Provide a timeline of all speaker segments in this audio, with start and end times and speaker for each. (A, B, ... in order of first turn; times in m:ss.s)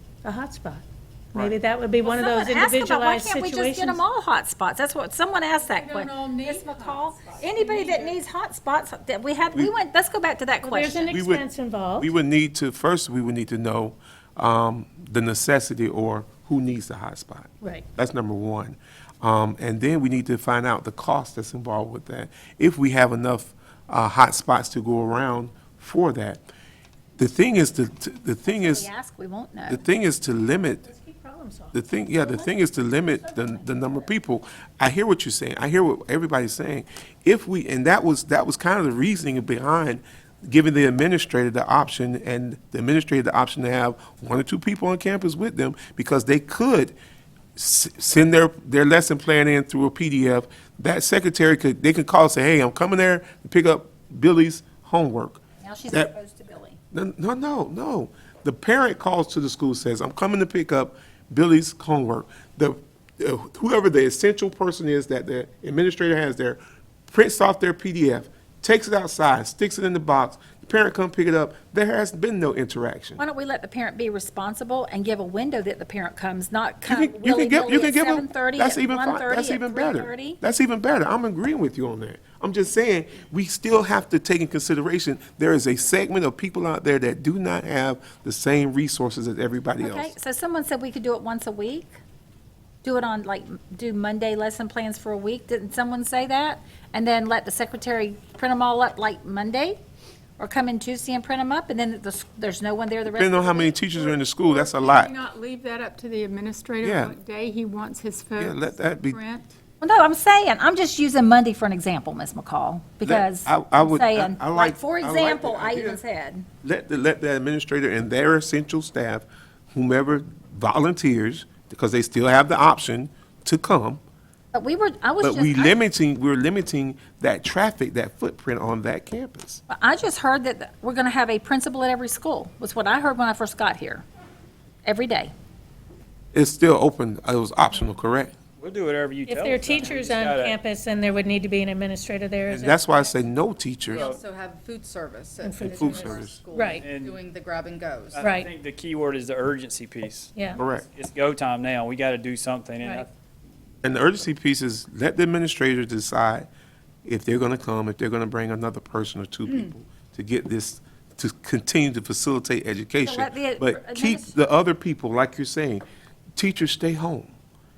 0:00.2-0:04.0 A
0:02.0-0:11.2 B
0:05.7-0:08.2 C
0:10.6-0:12.1 A
0:11.1-0:11.4 D
0:12.0-0:26.4 D
0:27.2-0:28.9 D
0:28.5-0:29.8 B
0:29.7-0:30.9 D
0:30.8-0:31.8 A
0:31.7-0:47.0 D
0:33.2-0:34.1 B
0:47.6-0:56.1 D
0:55.6-0:56.8 B
0:56.9-1:13.2 D
1:13.2-1:20.4 B
1:16.9-1:30.1 D
1:29.8-1:32.0 B
1:32.8-1:39.8 B
1:40.4-1:43.8 B
1:43.0-1:45.1 D
1:44.0-1:49.5 C
1:46.8-1:47.2 D
1:48.4-1:49.2 D
1:49.8-1:56.5 B
1:53.0-1:56.0 D
1:56.6-2:04.0 D
2:04.5-2:05.8 B
2:05.2-2:09.6 D
2:09.7-2:14.0 B
2:14.8-2:15.3 B
2:16.3-2:18.3 D
2:18.6-2:20.6 E
2:19.3-2:23.1 A
2:22.5-2:24.2 D
2:23.9-2:28.3 F
2:25.4-2:26.9 A
2:25.6-2:26.4 D
2:26.8-2:27.1 E
2:28.2-2:30.3 E
2:28.2-2:28.5 A
2:30.3-2:30.6 A
2:30.5-2:30.8 D
2:30.9-2:33.1 E
2:33.8-2:36.5 D
2:37.0-2:45.8 D
2:43.0-2:44.3 B
2:46.4-2:47.3 D